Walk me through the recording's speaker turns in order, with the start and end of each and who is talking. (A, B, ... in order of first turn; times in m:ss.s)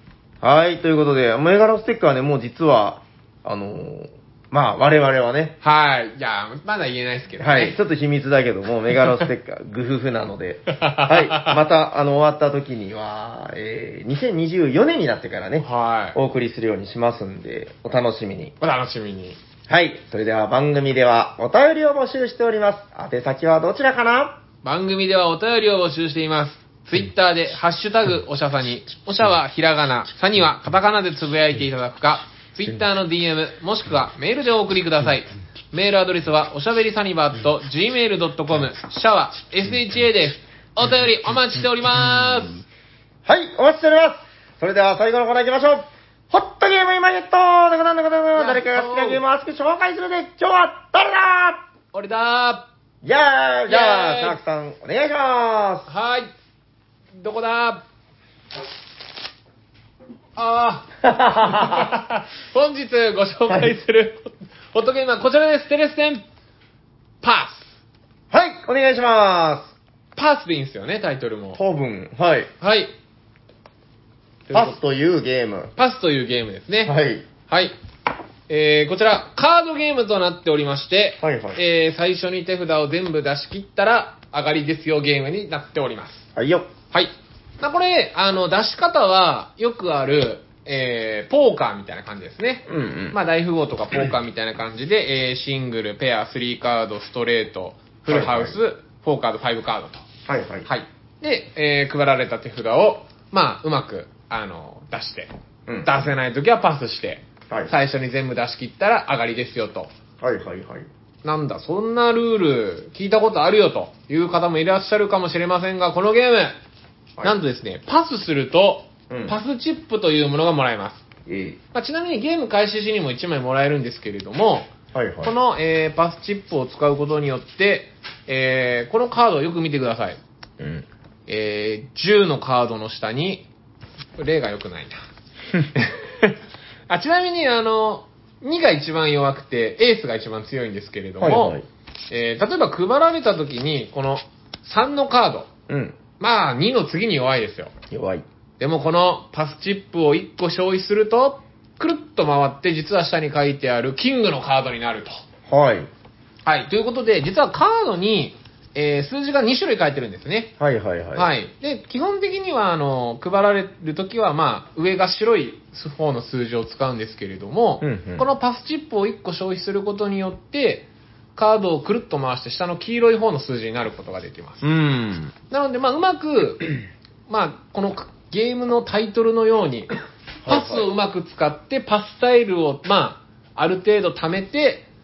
0:00.4-0:05.6 A
0:05.6-0:07.8 B
0:07.4-0:18.5 A
0:10.7-0:11.6 B
0:15.6-0:16.2 B
0:18.6-0:19.4 B
0:19.7-0:24.4 A
0:24.6-0:42.6 B
0:43.3-0:51.6 A
0:48.4-0:49.2 B
0:51.9-0:52.7 B
0:53.0-0:55.9 A
0:53.7-0:54.4 B
0:55.9-0:56.3 B
0:57.2-0:57.8 B
1:00.4-1:06.2 B
1:01.0-1:01.9 A
1:03.5-1:03.8 A
1:07.2-1:07.8 B
1:08.3-1:09.7 A
1:10.2-1:11.6 B
1:11.6-1:12.5 A
1:12.6-1:12.9 B
1:14.5-1:14.8 B
1:14.5-1:15.7 A
1:15.8-1:17.0 B
1:16.9-1:17.3 A
1:17.5-1:17.8 B
1:18.5-1:26.3 B
1:21.2-1:21.6 A
1:26.4-1:26.7 A
1:26.9-1:40.1 B
1:32.7-1:33.2 A
1:38.1-1:38.6 A
1:40.3-1:40.7 A
1:40.7-1:45.3 B
1:45.7-1:46.1 A
1:45.8-1:49.9 B
1:50.2-1:50.9 A
1:51.2-1:56.6 B
1:57.2-2:01.0 B
1:59.1-1:59.4 A
2:01.3-2:01.6 A
2:01.7-2:04.7 B
2:04.9-2:05.4 A
2:05.2-2:10.2 B
2:10.6-2:10.9 A
2:11.3-2:13.5 B
2:14.2-2:15.0 B
2:15.8-2:16.4 B
2:16.9-2:21.6 B
2:21.2-2:21.7 A
2:22.1-2:25.5 B
2:25.7-2:26.0 A
2:26.2-2:27.7 B
2:27.9-2:28.2 A
2:28.6-2:35.2 B
2:35.5-2:35.9 A
2:36.5-2:40.5 B
2:40.6-2:41.3 A
2:41.2-2:54.7 B
2:47.8-2:48.3 A
2:54.6-2:55.3 A
2:55.5-2:56.7 B
2:57.3-2:59.9 B
3:00.4-3:00.9 A
3:00.5-3:04.9 B